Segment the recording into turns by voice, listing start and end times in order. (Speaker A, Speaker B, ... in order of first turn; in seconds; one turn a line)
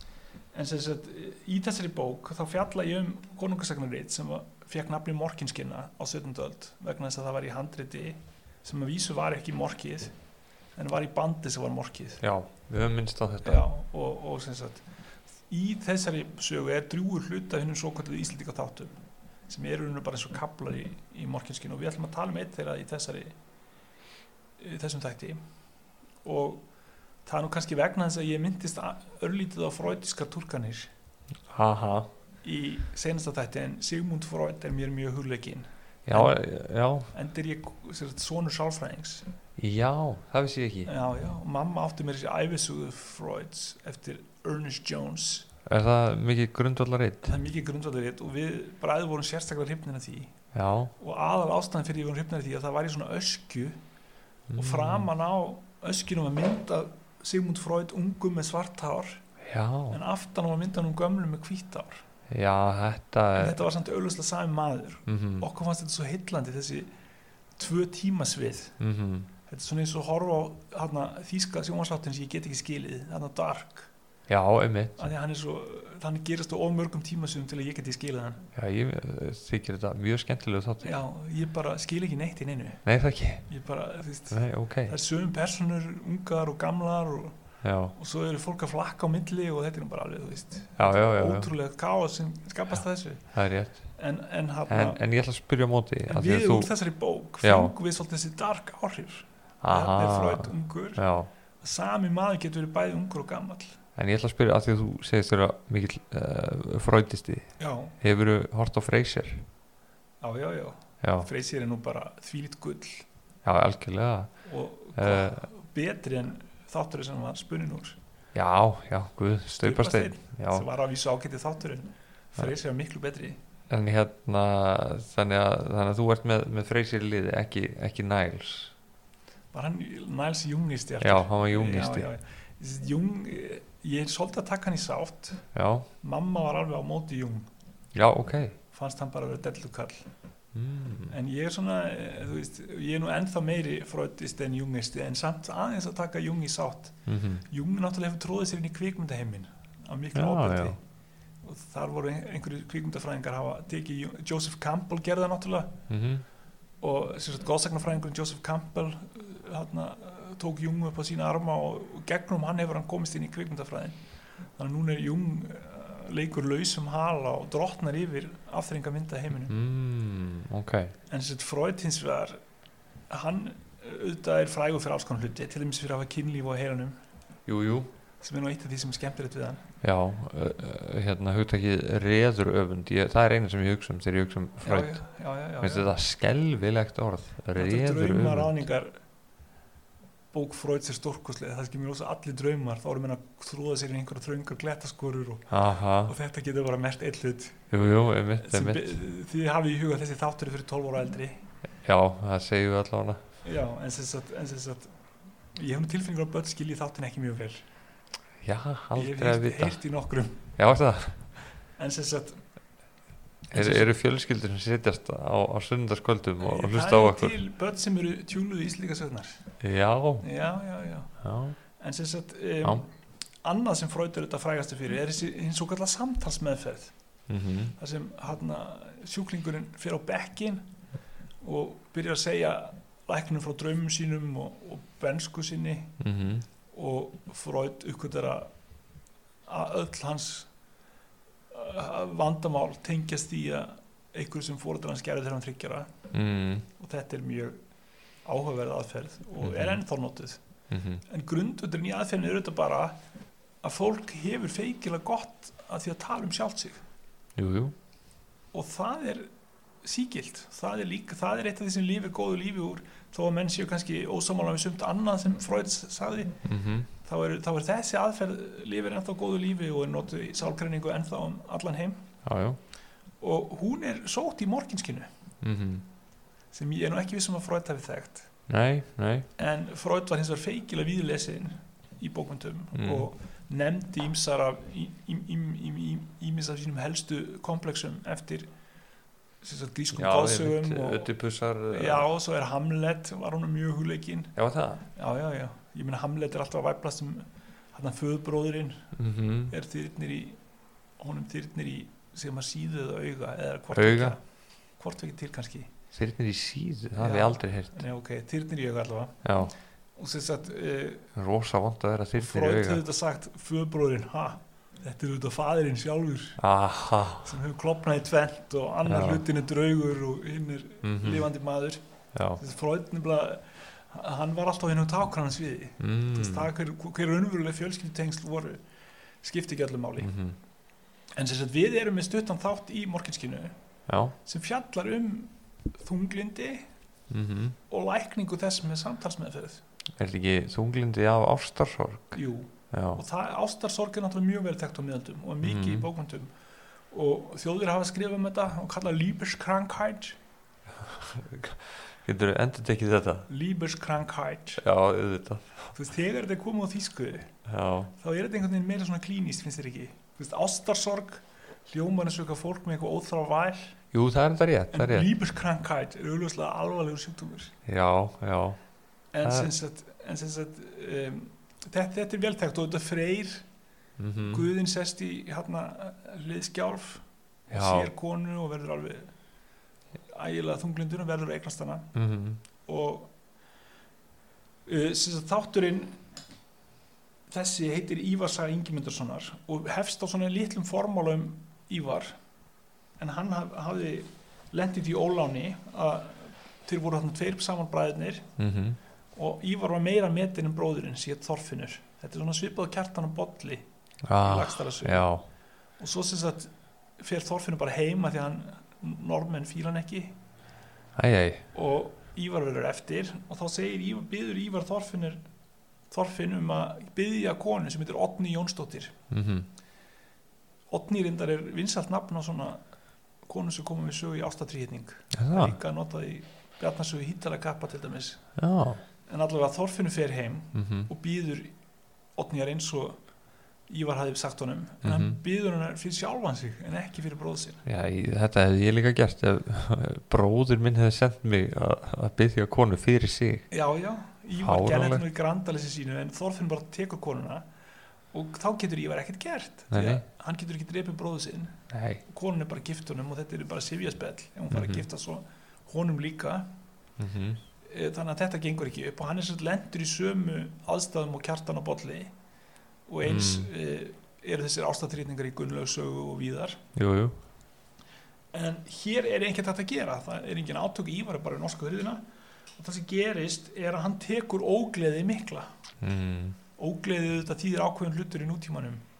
Speaker A: 0.5-10.1
Speaker A: 10.8-12.2
Speaker B: 12.2-13.6
Speaker A: 13.4-14.9
Speaker A: 15.5-18.9
Speaker A: 19.5-23.3
Speaker A: 24.6-25.4
Speaker A: 26.2-26.6
Speaker A: 27.2-30.9
Speaker B: 31.5-32.1
Speaker A: 32.4-36.4
Speaker B: 36.1-37.1
Speaker A: 37.1-39.2
Speaker B: 39.6-40.9
Speaker A: 40.9-45.5
Speaker B: 45.6-47.3
Speaker A: 47.2-50.3
Speaker B: 50.5-50.9
Speaker A: 51.0-53.8
Speaker B: 54.5-55.1
Speaker A: 54.5-59.2
Speaker B: 59.4-60.0
Speaker A: 59.9-62.0
Speaker B: 62.3-63.6
Speaker A: 63.4-66.9
Speaker B: 65.1-65.5
Speaker A: 67.6-68.8
Speaker B: 68.8-69.3
Speaker A: 69.5-73.9
Speaker B: 74.3-75.1
Speaker A: 75.0-78.5
Speaker B: 78.5-81.0
Speaker A: 80.8-82.8
Speaker B: 82.8-83.5
Speaker A: 83.5-87.4
Speaker B: 84.3-85.0
Speaker B: 87.6-87.9
Speaker A: 87.9-93.3
Speaker B: 90.8-91.5
Speaker B: 93.3-93.8
Speaker A: 93.9-95.0
Speaker B: 94.7-96.7
Speaker A: 96.1-101.0
Speaker B: 97.4-97.7
Speaker B: 99.6-101.3
Speaker A: 101.6-103.8
Speaker B: 104.0-109.4
Speaker A: 107.6-107.9
Speaker A: 110.2-113.1
Speaker B: 111.0-111.3
Speaker B: 113.4-114.3
Speaker A: 114.5-118.0
Speaker B: 115.0-115.4
Speaker B: 118.3-120.7
Speaker A: 119.5-123.4
Speaker B: 123.7-128.7
Speaker A: 129.5-135.5
Speaker B: 131.0-132.1
Speaker B: 135.5-135.9
Speaker A: 136.0-137.5
Speaker B: 137.9-138.6
Speaker A: 138.7-140.1
Speaker B: 140.5-141.1
Speaker A: 141.1-147.0
Speaker B: 147.1-147.4
Speaker A: 147.5-150.8
Speaker B: 150.1-150.8
Speaker A: 151.4-155.8
Speaker B: 155.9-156.2
Speaker A: 156.8-164.0
Speaker A: 164.6-169.5
Speaker B: 169.5-170.9
Speaker A: 171.1-172.4
Speaker A: 173.1-177.0
Speaker B: 177.4-177.9
Speaker A: 178.2-179.6
Speaker B: 179.8-185.0
Speaker A: 184.6-185.9
Speaker B: 185.6-188.6
Speaker A: 187.6-189.0
Speaker A: 190.3-197.6
Speaker B: 195.5-196.1
Speaker B: 197.7-199.0
Speaker A: 198.4-201.4
Speaker B: 201.8-203.2
Speaker A: 203.4-204.9
Speaker A: 205.5-207.6
Speaker B: 208.4-209.8
Speaker A: 208.9-210.5
Speaker B: 210.6-211.3
Speaker A: 211.8-212.4
Speaker A: 213.5-213.9
Speaker B: 213.5-217.4
Speaker A: 216.4-219.5
Speaker B: 219.6-220.3
Speaker A: 220.2-221.2
Speaker B: 221.2-221.6
Speaker A: 221.7-226.9
Speaker B: 227.3-227.7
Speaker A: 227.8-230.7
Speaker A: 231.4-235.9
Speaker B: 236.0-236.4
Speaker A: 236.7-238.5
Speaker A: 239.5-240.5
Speaker A: 241.5-245.9
Speaker B: 246.1-246.7
Speaker A: 246.8-247.6
Speaker A: 248.2-250.4
Speaker B: 249.4-249.8
Speaker B: 250.7-251.0
Speaker A: 251.1-252.9
Speaker A: 253.6-256.8
Speaker B: 257.4-257.7
Speaker A: 258.5-259.3
Speaker A: 259.8-266.4
Speaker B: 266.4-266.9
Speaker A: 267.0-272.1
Speaker B: 272.2-272.6
Speaker A: 273.2-275.1
Speaker B: 275.4-275.8
Speaker A: 276.5-278.3
Speaker B: 278.5-279.3
Speaker A: 279.4-288.5
Speaker B: 282.7-283.1
Speaker A: 289.4-291.1
Speaker B: 289.9-292.1
Speaker A: 291.7-294.3
Speaker B: 294.4-294.8
Speaker A: 294.9-298.9
Speaker B: 298.9-299.5
Speaker A: 299.5-300.4
Speaker A: 301.0-305.7
Speaker B: 303.7-304.2
Speaker B: 305.9-307.7
Speaker A: 307.0-309.2
Speaker B: 309.2-309.6
Speaker A: 309.9-311.1
Speaker B: 311.1-312.8
Speaker A: 312.2-316.4
Speaker B: 316.4-317.3
Speaker A: 317.2-321.8
Speaker B: 318.9-319.2
Speaker B: 320.8-321.3
Speaker B: 322.1-322.4
Speaker A: 322.4-328.6
Speaker B: 325.8-326.5
Speaker A: 329.2-330.1
Speaker B: 330.0-330.4
Speaker A: 331.2-333.5
Speaker B: 333.9-334.2
Speaker A: 334.2-336.7
Speaker B: 337.1-337.6
Speaker A: 337.7-339.6
Speaker B: 339.9-342.2
Speaker A: 342.1-346.3
Speaker B: 342.7-343.0
Speaker B: 345.4-345.9
Speaker A: 346.9-350.2
Speaker B: 350.8-353.3
Speaker A: 353.3-354.6
Speaker B: 354.6-355.7
Speaker A: 355.7-357.4
Speaker B: 357.4-357.9
Speaker A: 357.9-363.8
Speaker B: 363.9-365.1
Speaker A: 364.7-367.6
Speaker B: 367.6-368.6
Speaker A: 369.1-373.4
Speaker B: 369.2-369.5
Speaker B: 374.0-374.5
Speaker A: 374.3-379.1
Speaker B: 377.5-377.9
Speaker A: 380.1-381.9
Speaker B: 381.9-382.4
Speaker A: 382.7-383.1
Speaker A: 384.7-386.0
Speaker A: 387.3-392.2
Speaker A: 393.0-398.3
Speaker B: 398.4-398.8
Speaker A: 399.1-403.6
Speaker B: 404.1-405.2
Speaker A: 404.2-405.1
Speaker A: 405.8-410.1
Speaker B: 410.9-411.4
Speaker A: 411.5-415.2
Speaker A: 415.9-418.9
Speaker B: 419.1-419.5
Speaker A: 420.7-422.6
Speaker A: 423.2-428.3
Speaker B: 425.1-425.6
Speaker B: 428.4-428.8
Speaker A: 429.1-431.5
Speaker B: 430.6-430.9
Speaker A: 432.2-433.0
Speaker A: 433.7-437.6
Speaker B: 434.8-435.2
Speaker B: 437.7-443.5
Speaker A: 443.5-447.4
Speaker B: 444.4-445.1
Speaker A: 448.1-456.5
Speaker B: 449.7-450.0
Speaker B: 451.7-452.0
Speaker B: 454.5-454.8
Speaker B: 457.0-457.4
Speaker A: 457.6-462.1
Speaker A: 462.9-466.6
Speaker B: 463.0-463.5
Speaker B: 466.7-467.2
Speaker A: 468.3-472.0
Speaker A: 472.6-475.5
Speaker B: 475.8-476.4
Speaker A: 476.6-478.8